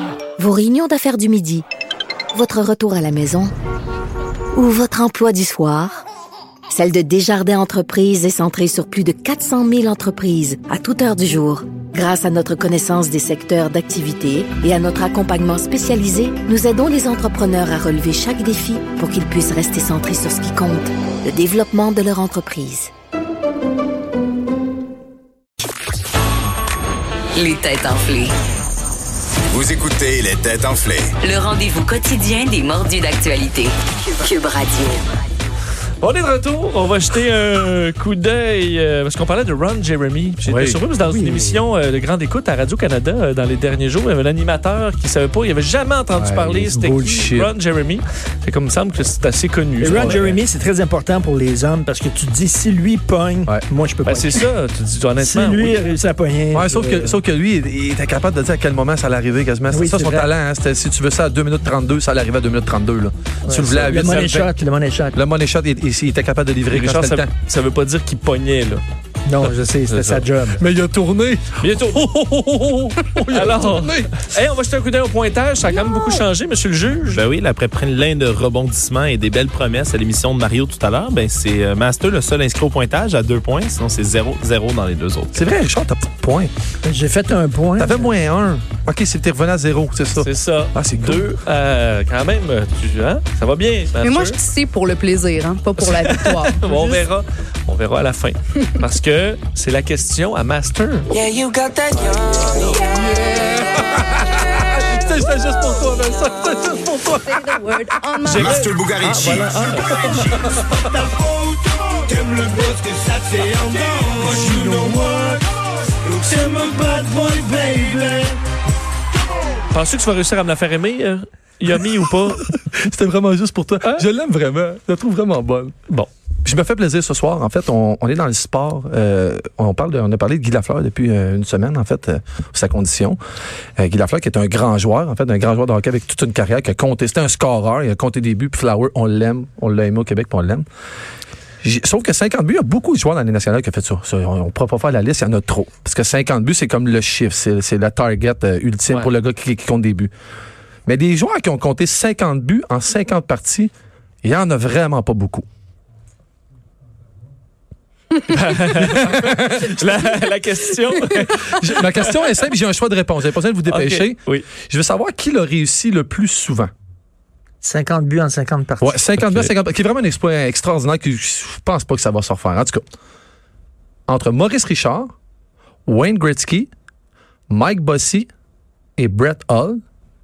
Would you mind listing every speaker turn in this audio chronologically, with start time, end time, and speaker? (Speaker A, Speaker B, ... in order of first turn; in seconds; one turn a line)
Speaker A: 0.4-1.6
Speaker A: 2.3-3.5
Speaker A: 4.5-6.0
Speaker A: 6.7-22.9
Speaker B: 27.3-28.3
Speaker C: 29.5-31.2
Speaker B: 31.2-35.0
Speaker D: 36.0-50.4
Speaker E: 40.4-40.8
Speaker F: 41.0-41.6
Speaker E: 46.1-47.5
Speaker F: 49.8-54.5
Speaker E: 49.9-50.2
Speaker D: 54.0-56.0
Speaker F: 55.2-57.2
Speaker E: 56.5-64.5
Speaker F: 59.7-60.3
Speaker D: 63.5-64.2
Speaker F: 63.5-65.2
Speaker E: 65.1-67.3
Speaker D: 66.7-68.8
Speaker F: 69.2-70.6
Speaker D: 69.9-70.2
Speaker E: 70.6-74.1
Speaker D: 71.6-72.0
Speaker D: 73.3-77.2
Speaker G: 77.1-85.5
Speaker E: 85.3-86.5
Speaker F: 86.8-88.1
Speaker E: 87.8-91.3
Speaker D: 90.2-94.3
Speaker H: 94.0-97.0
Speaker D: 95.8-101.1
Speaker B: 101.1-102.8
Speaker E: 102.8-107.9
Speaker H: 107.2-108.7
Speaker D: 108.2-110.2
Speaker C: 108.3-110.1
Speaker F: 110.1-110.4
Speaker E: 110.3-111.0
Speaker C: 112.2-112.5
Speaker F: 112.8-115.4
Speaker F: 116.0-118.3
Speaker D: 119.7-122.5
Speaker E: 122.3-125.7
Speaker E: 126.4-133.2
Speaker E: 133.8-140.7
Speaker E: 141.6-150.1
Speaker E: 150.8-153.7
Speaker E: 154.2-155.4
Speaker D: 158.3-162.2
Speaker E: 158.8-160.0
Speaker E: 161.2-166.7
Speaker D: 163.7-164.5
Speaker F: 167.6-169.0
Speaker E: 168.8-172.8
Speaker D: 169.2-169.5
Speaker E: 174.1-175.1
Speaker E: 175.8-176.7
Speaker E: 177.5-178.3
Speaker E: 179.0-179.8